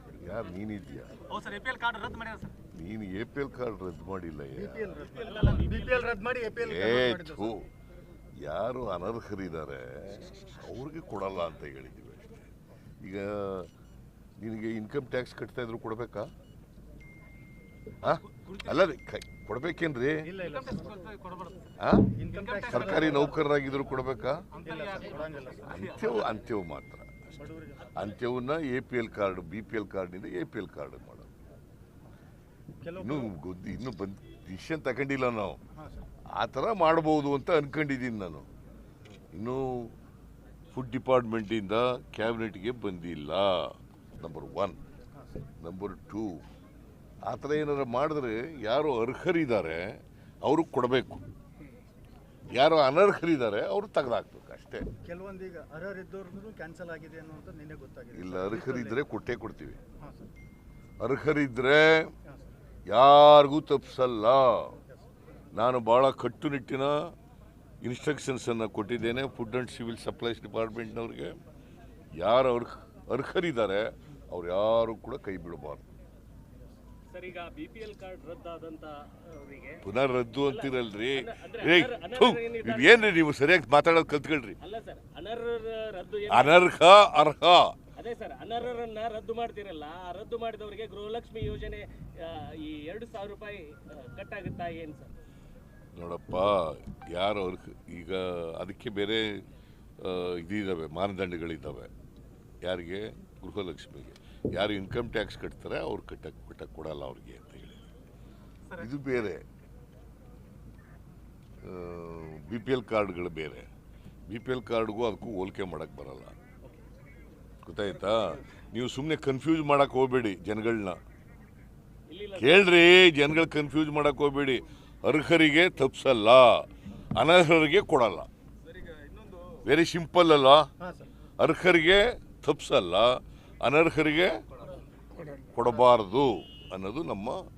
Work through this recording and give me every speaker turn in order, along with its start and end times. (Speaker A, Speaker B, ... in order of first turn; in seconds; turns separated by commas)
Speaker A: 0.2-1.1, Speaker B: 1.3-2.5, Speaker A: 2.7-5.0, Speaker C: 4.5-7.6, Speaker B: 5.2-6.2, Speaker D: 5.3-5.8, Speaker A: 6.6-7.7, Speaker A: 8.3-12.5, Speaker A: 13.0-13.7, Speaker A: 14.4-16.3, Speaker A: 18.0-20.3, Speaker B: 18.1-18.8, Speaker C: 20.2-21.0, Speaker B: 20.4-21.8, Speaker A: 21.8-24.5, Speaker C: 22.1-23.4, Speaker B: 22.3-23.1, Speaker B: 24.5-26.3, Speaker C: 24.6-25.6, Speaker A: 25.6-27.2, Speaker C: 27.4-28.0, Speaker A: 27.9-31.3, Speaker C: 32.8-33.3, Speaker A: 33.0-35.6, Speaker C: 35.8-36.0, Speaker A: 36.3-38.5, Speaker A: 39.3-40.0, Speaker A: 40.7-44.8, Speaker C: 45.1-45.5, Speaker A: 45.6-46.4, Speaker A: 47.3-51.3, Speaker A: 52.5-54.9, Speaker C: 55.0-59.0, Speaker A: 58.1-59.8, Speaker C: 60.0-60.3, Speaker A: 61.0-62.1, Speaker A: 62.9-64.8, Speaker C: 64.8-65.0, Speaker A: 65.5-67.1, Speaker A: 67.8-71.4, Speaker A: 72.2-75.8, Speaker D: 77.1-79.8, Speaker A: 79.8-84.6, Speaker D: 80.4-83.1, Speaker D: 84.6-86.7, Speaker A: 86.3-87.8, Speaker D: 88.0-95.1, Speaker A: 96.0-99.5, Speaker A: 100.0-101.9, Speaker A: 102.6-107.8, Speaker A: 108.8-109.4, Speaker A: 111.6-113.7, Speaker A: 114.3-116.4, Speaker A: 117.6-121.0, Speaker D: 118.0-118.4, Speaker D: 122.1-122.8, Speaker A: 122.4-128.3, Speaker D: 128.7-129.6, Speaker A: 129.6-130.7, Speaker C: 130.8-131.1, Speaker A: 131.4-134.7, Speaker A: 135.2-137.4